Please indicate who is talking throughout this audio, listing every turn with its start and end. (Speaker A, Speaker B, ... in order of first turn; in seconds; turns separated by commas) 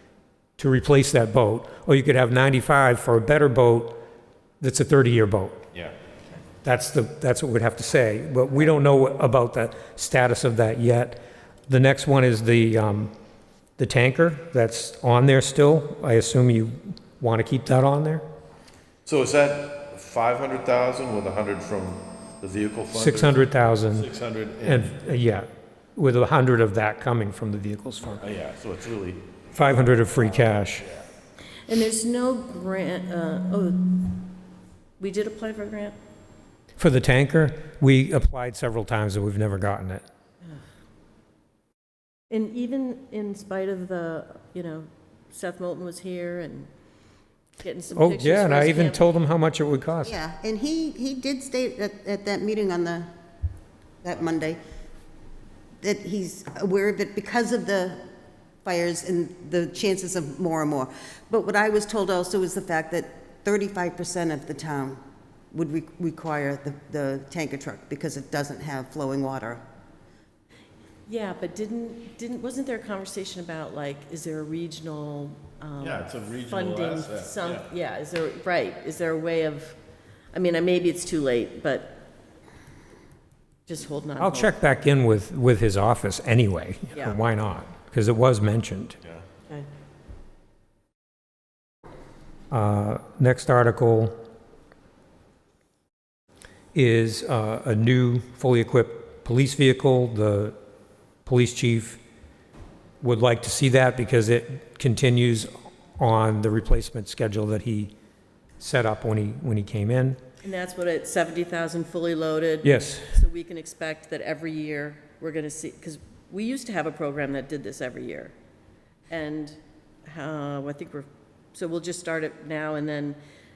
Speaker A: 0.6-4.0, Speaker A: 4.6-5.6, Speaker A: 6.6-13.1, Speaker A: 13.8-18.2, Speaker B: 19.1-25.1, Speaker A: 22.9-24.1, Speaker A: 24.6-28.2, Speaker B: 28.2-31.0, Speaker A: 29.5-30.9, Speaker C: 31.6-34.2, Speaker C: 35.0-36.0, Speaker A: 36.8-40.0, Speaker C: 42.3-46.7, Speaker C: 47.6-49.1, Speaker A: 47.9-50.2, Speaker D: 50.0-53.1, Speaker D: 54.0-54.6, Speaker D: 55.8-58.0, Speaker D: 58.6-65.0, Speaker D: 65.5-69.6, Speaker C: 71.1-79.8, Speaker B: 75.8-77.7, Speaker C: 80.3-82.0, Speaker C: 83.7-84.5, Speaker A: 84.2-89.0, Speaker A: 92.5-94.2, Speaker A: 96.7-100.5, Speaker A: 101.2-102.0, Speaker A: 103.0-107.9, Speaker A: 108.6-110.2, Speaker C: 110.4-118.3, Speaker A: 112.6-113.1, Speaker C: 119.1-123.2